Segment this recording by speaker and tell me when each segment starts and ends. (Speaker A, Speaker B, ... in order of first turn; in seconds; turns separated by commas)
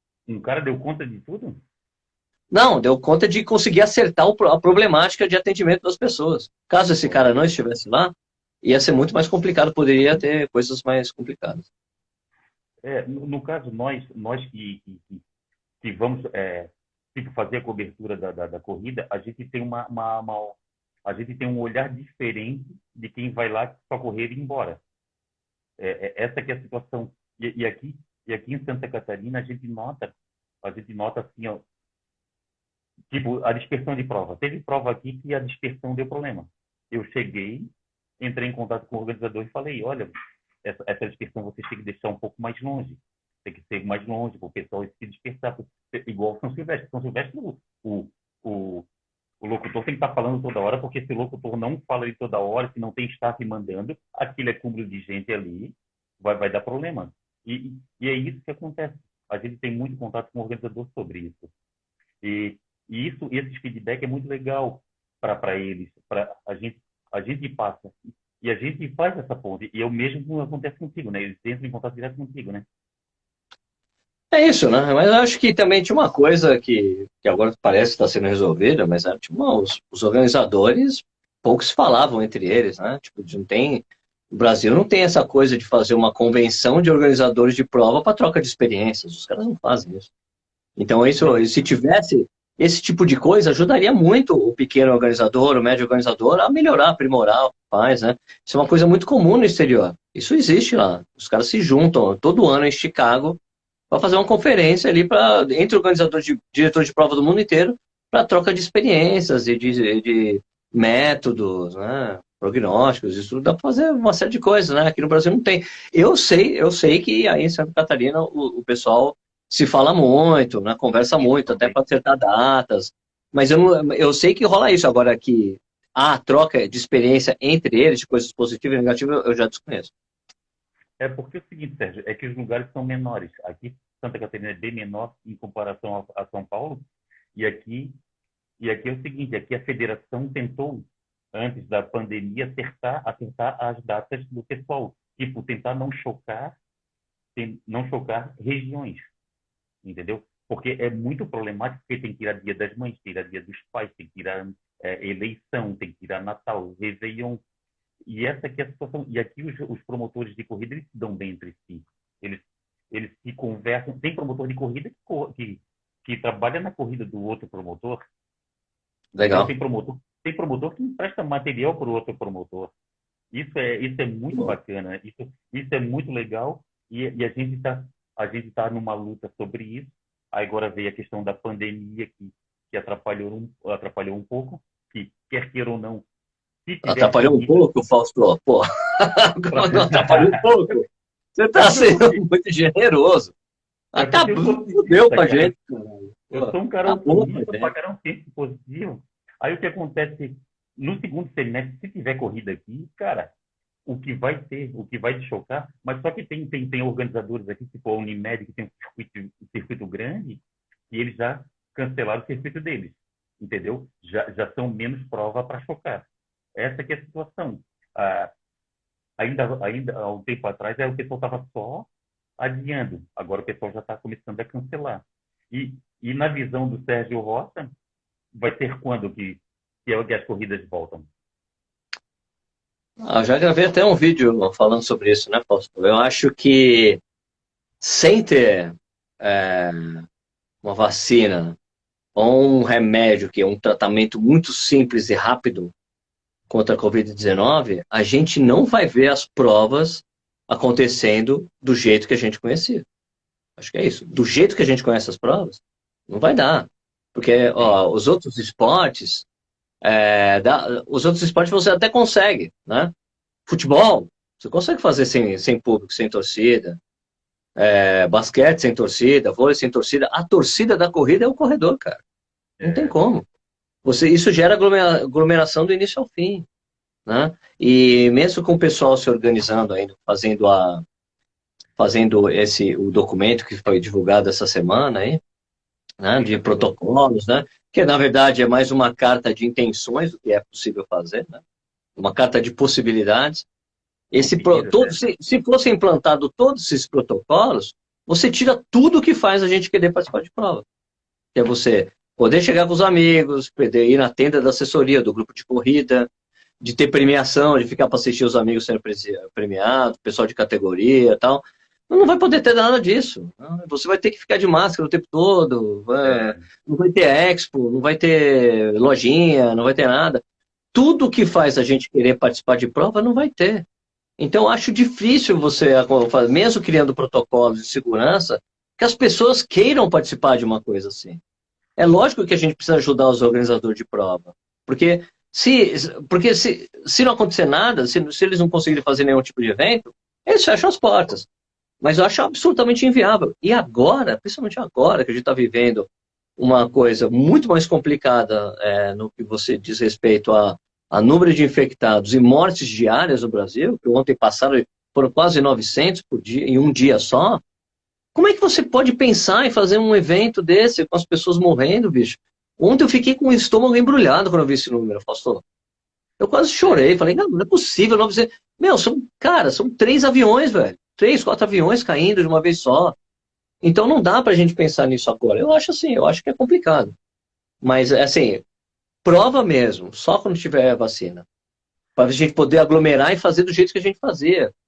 Speaker A: 0.3-1.6, Speaker B: 2.5-11.7, Speaker A: 7.0-7.3, Speaker A: 12.8-15.2, Speaker A: 15.8-24.8, Speaker A: 25.8-31.6, Speaker A: 33.1-37.7, Speaker A: 38.2-40.1, Speaker A: 40.6-48.9, Speaker A: 49.4-61.5, Speaker A: 62.2-72.6, Speaker B: 74.3-90.1, Speaker B: 90.8-103.4, Speaker A: 91.2-91.4, Speaker B: 103.9-129.9, Speaker A: 121.4-121.8, Speaker A: 131.0-136.8, Speaker A: 137.3-138.0, Speaker A: 138.6-146.6, Speaker A: 147.3-149.1, Speaker A: 149.8-157.4, Speaker A: 158.0-168.0, Speaker B: 169.2-169.5, Speaker A: 169.2-172.7, Speaker A: 173.3-186.1, Speaker A: 186.7-187.7, Speaker B: 186.8-190.8, Speaker A: 189.5-190.8, Speaker B: 191.3-193.3, Speaker A: 191.6-192.2, Speaker B: 193.9-197.7, Speaker A: 193.9-195.5, Speaker A: 196.3-203.3, Speaker A: 203.8-218.3, Speaker A: 219.2-221.9, Speaker A: 222.4-227.7, Speaker A: 228.3-231.1, Speaker B: 233.0-237.0, Speaker B: 237.8-240.0, Speaker B: 240.6-241.6, Speaker B: 242.1-245.7, Speaker B: 246.5-252.8, Speaker B: 253.6-259.2, Speaker B: 259.8-262.9, Speaker B: 263.5-266.8, Speaker B: 267.6-272.0, Speaker A: 272.6-273.0, Speaker B: 272.6-273.2, Speaker B: 273.8-276.4, Speaker B: 277.1-280.8, Speaker B: 281.8-285.2, Speaker B: 286.0-291.4, Speaker A: 286.2-286.7, Speaker B: 292.0-293.5, Speaker B: 294.1-300.6, Speaker A: 294.2-295.0, Speaker B: 301.3-306.1, Speaker B: 306.6-320.2, Speaker A: 316.0-316.4, Speaker B: 320.7-323.6, Speaker B: 324.2-331.2, Speaker B: 331.8-341.3, Speaker B: 341.8-357.4, Speaker B: 358.1-365.4, Speaker B: 366.2-372.9, Speaker A: 366.6-366.9, Speaker B: 373.6-376.9, Speaker B: 377.6-378.4, Speaker B: 379.0-381.2, Speaker B: 381.9-384.5